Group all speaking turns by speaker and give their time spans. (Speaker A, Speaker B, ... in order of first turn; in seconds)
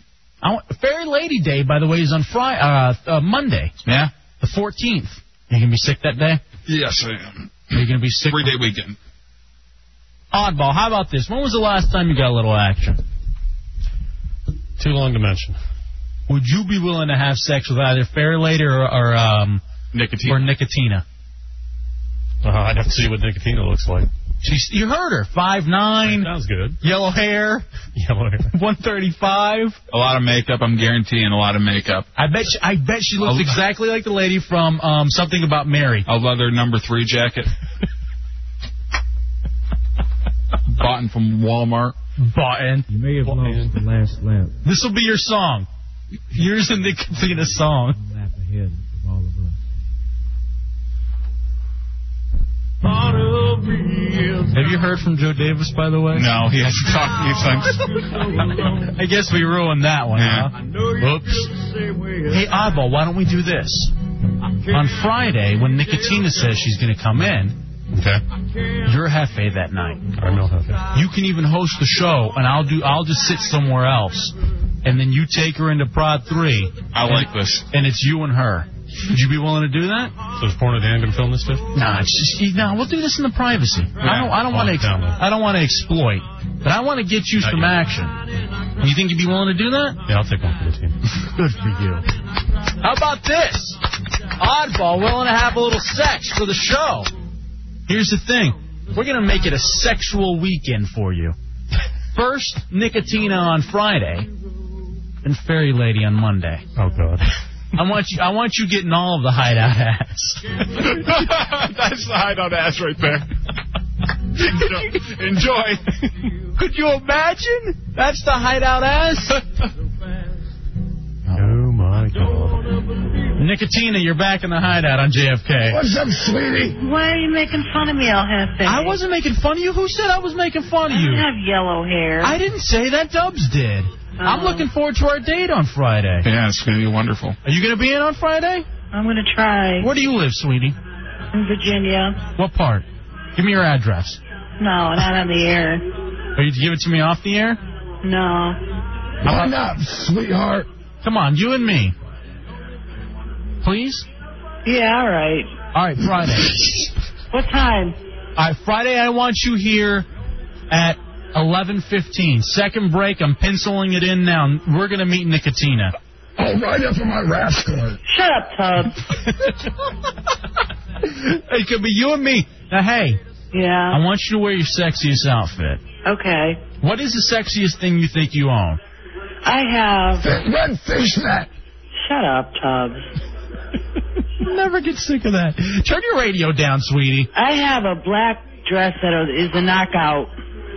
Speaker A: 0.4-3.7, 4.4-6.4, 7.7-8.5, 10.3-13.0, 16.3-19.6, 20.3-21.0, 24.4-27.6, 28.5-29.8, 32.1-36.1, 42.3-42.9, 44.6-45.7, 46.3-48.0, 54.5-56.3, 58.8-61.5, 62.2-63.9, 64.6-67.6, 68.8-70.1, 70.9-74.3, 74.8-80.1, 81.7-88.2, 88.8-90.0, 91.2-92.0, 92.8-93.8, 94.4-97.1, 97.9-101.3, 102.1-104.3, 105.2-106.6, 107.8-110.4, 116.5-119.4, 121.3-121.6, 123.4-125.8, 128.6-131.3, 132.2-136.3, 137.4-138.7, 139.8-140.8, 142.3-144.2, 146.3-147.6, 151.0-151.9, 153.6-154.0, 155.7-156.5, 158.4-160.1, 160.7-165.9, 171.0-173.2, 173.9-175.8, 176.8-178.8, 184.4-187.3
Speaker B: 3.8-4.1, 6.7-9.0, 19.9-20.5, 29.9-32.0, 33.2-33.6, 36.1-37.5, 40.7-42.0, 56.1-58.2, 60.1-60.5, 76.9-77.7, 84.0-84.3, 110.8-113.3, 114.4-115.8, 136.2-137.4
Speaker C: 14.8-15.6, 22.4-24.1, 26.0-26.8, 27.9-28.5, 43.2-43.8, 67.9-68.2, 70.2-70.8, 80.3-81.7, 84.2-85.2, 87.4-87.7, 90.0-91.0, 106.8-107.3, 121.3-122.6
Speaker D: 125.6-126.8, 149.2-150.7, 166.4-168.0, 180.2-181.5
Speaker E: 126.8-129.0, 130.9-132.3, 134.2-134.7, 138.9-139.9, 141.3-142.2, 144.6-145.8, 148.0-148.6, 154.6-155.5, 157.3-158.0, 168.1-168.9, 173.5-174.0, 176.0-176.6, 179.4-180.3, 182.0-183.1, 187.3-190.3